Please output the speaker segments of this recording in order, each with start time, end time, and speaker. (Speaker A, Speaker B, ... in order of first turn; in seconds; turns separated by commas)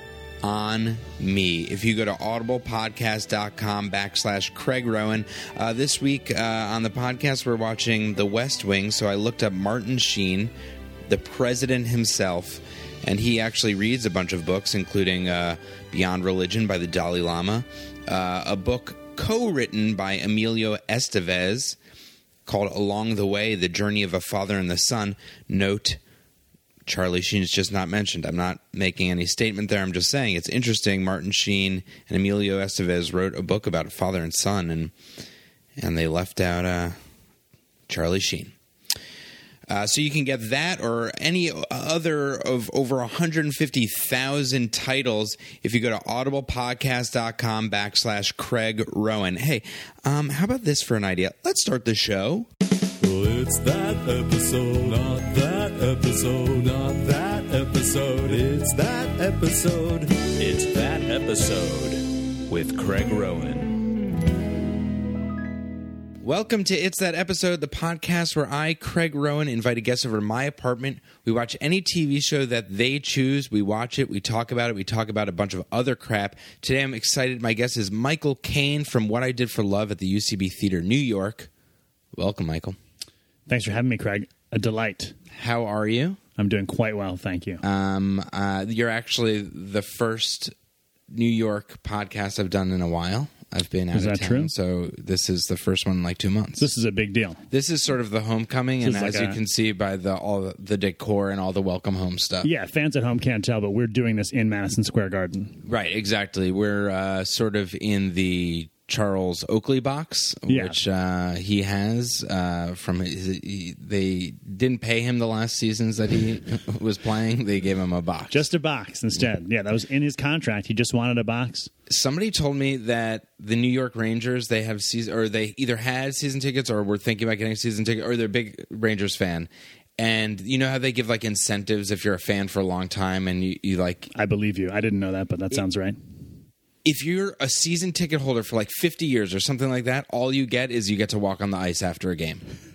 Speaker A: 0.4-10.5, Speaker A: 11.1-21.8, Speaker A: 22.4-26.0, Speaker A: 26.9-34.9, Speaker A: 35.8-37.0, Speaker A: 37.9-38.5, Speaker A: 39.7-52.5, Speaker B: 53.0-63.8, Speaker A: 66.2-81.5, Speaker A: 82.1-82.8, Speaker C: 83.5-85.1, Speaker A: 85.3-86.2, Speaker C: 86.4-87.6, Speaker A: 87.6-90.5, Speaker A: 91.1-96.7, Speaker C: 93.9-94.5, Speaker C: 96.6-97.4, Speaker A: 97.5-102.5, Speaker C: 98.8-99.4, Speaker C: 102.4-105.6, Speaker A: 105.6-118.5, Speaker C: 110.5-110.8, Speaker C: 118.3-121.7, Speaker A: 121.9-134.1, Speaker C: 134.1-136.0, Speaker A: 136.8-142.4